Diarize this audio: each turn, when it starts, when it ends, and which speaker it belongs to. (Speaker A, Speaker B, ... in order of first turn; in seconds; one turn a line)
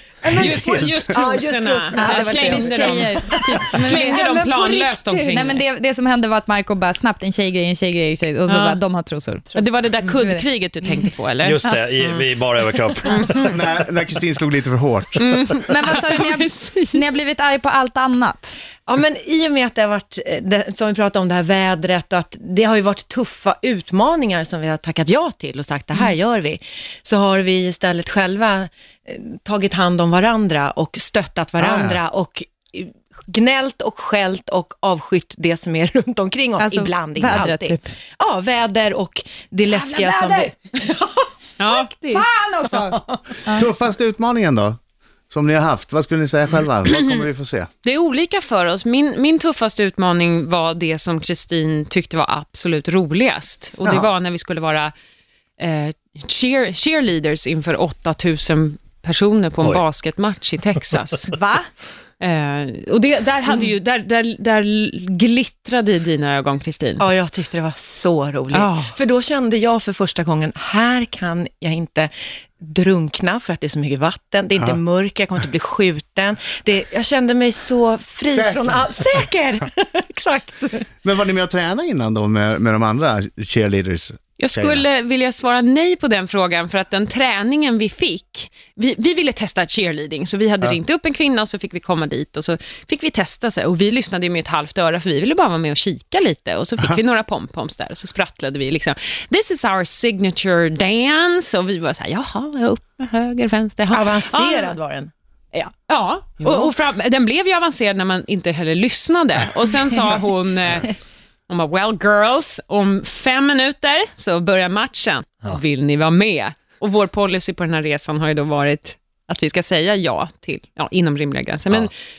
Speaker A: 0.2-3.1
Speaker B: 0.3-1.2
Speaker C: 0.3-5.6
Speaker D: 1.9-4.2
Speaker A: 3.8-5.5
Speaker D: 5.3-9.5
Speaker C: 8.5-8.8
Speaker C: 9.5-12.3
Speaker D: 10.2-10.4
Speaker E: 11.4-13.5
Speaker C: 13.0-13.5
Speaker B: 13.5-15.4
Speaker C: 15.2-17.2
Speaker D: 15.7-18.6
Speaker A: 18.9-40.8
Speaker B: 31.6-32.0
Speaker D: 36.6-37.9
Speaker D: 39.7-40.5
Speaker C: 41.6-42.2
Speaker D: 41.8-43.6
Speaker B: 43.5-44.8
Speaker B: 45.3-47.7
Speaker C: 46.9-47.2
Speaker C: 47.8-54.9
Speaker C: 55.6-61.4
Speaker D: 61.3-61.7
Speaker C: 62.2-67.0
Speaker A: 67.0-80.8
Speaker C: 68.5-68.9
Speaker B: 78.3-78.8
Speaker B: 81.0-84.8
Speaker C: 84.4-104.8
Speaker A: 103.9-105.1
Speaker C: 105.5-111.0
Speaker A: 106.4-106.7
Speaker C: 111.5-121.9